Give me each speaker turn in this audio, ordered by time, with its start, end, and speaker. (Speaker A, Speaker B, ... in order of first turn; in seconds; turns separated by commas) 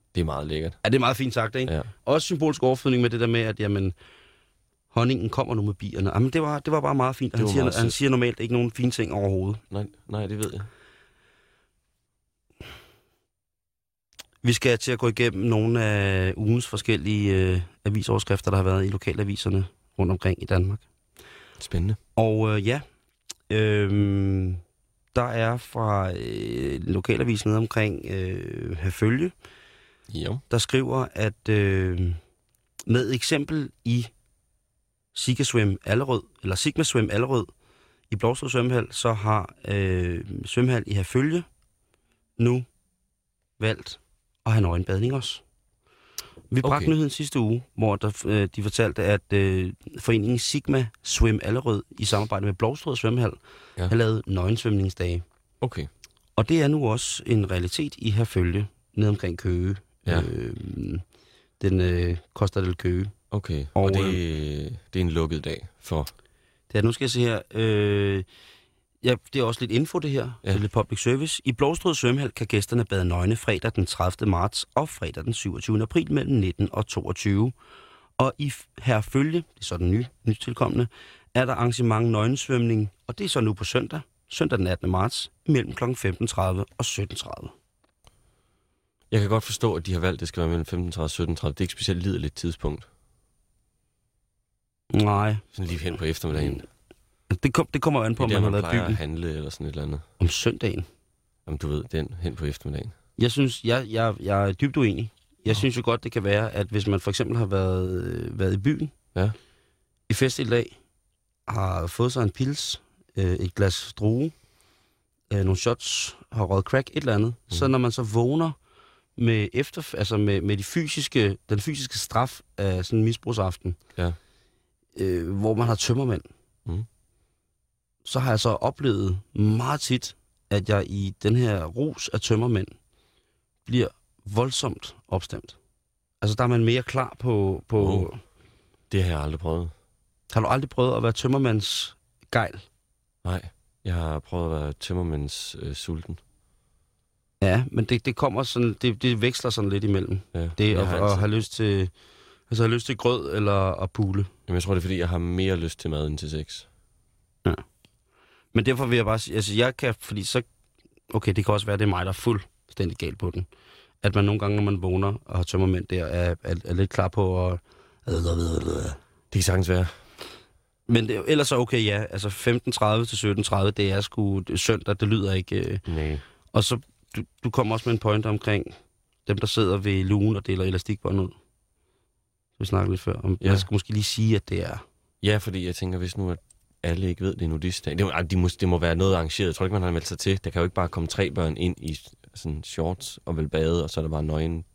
Speaker A: 0.1-0.8, Speaker B: 0.8-3.9, Speaker B: 4.9-9.6, Speaker A: 7.4-8.0, Speaker A: 9.7-10.7, Speaker B: 14.4-20.8, Speaker A: 21.6-22.0, Speaker B: 22.1-22.8, Speaker B: 23.5-24.6, Speaker B: 25.1-29.3, Speaker A: 30.1-30.4, Speaker B: 30.5-32.2, Speaker B: 32.9-34.1, Speaker B: 35.1-37.5, Speaker B: 38.1-41.5, Speaker B: 42.4-42.6, Speaker B: 43.6-45.4, Speaker B: 46.5-55.2, Speaker A: 46.6-46.9, Speaker A: 55.6-55.9, Speaker B: 56.4-61.0, Speaker B: 61.6-63.1, Speaker A: 63.3-66.1, Speaker B: 63.7-64.2, Speaker B: 66.7-68.2, Speaker B: 69.0-77.5, Speaker B: 78.2-87.5, Speaker A: 89.1-92.8, Speaker B: 94.9-95.5, Speaker A: 95.5-96.7, Speaker B: 97.3-99.0, Speaker A: 98.2-100.0, Speaker B: 100.2-100.9, Speaker A: 101.5-102.9, Speaker B: 103.2-108.9, Speaker B: 110.1-110.7, Speaker B: 111.5-114.3, Speaker B: 115.3-118.5, Speaker B: 119.2-123.8, Speaker B: 125.0-126.3, Speaker B: 128.0-132.7, Speaker B: 133.7-135.6, Speaker B: 136.2-138.2, Speaker A: 137.8-138.1, Speaker A: 138.9-139.7, Speaker B: 140.3-142.6, Speaker A: 143.2-146.2, Speaker B: 147.4-151.9, Speaker A: 150.3-151.3, Speaker B: 152.5-154.3, Speaker A: 154.5-156.7, Speaker B: 158.5-160.4, Speaker B: 161.1-163.5, Speaker B: 164.0-169.0, Speaker A: 169.3-169.9, Speaker B: 170.9-175.8, Speaker A: 175.8-176.2, Speaker B: 176.5-178.7, Speaker B: 179.2-181.3, Speaker B: 182.6-184.8, Speaker A: 183.4-183.7, Speaker A: 185.2-194.7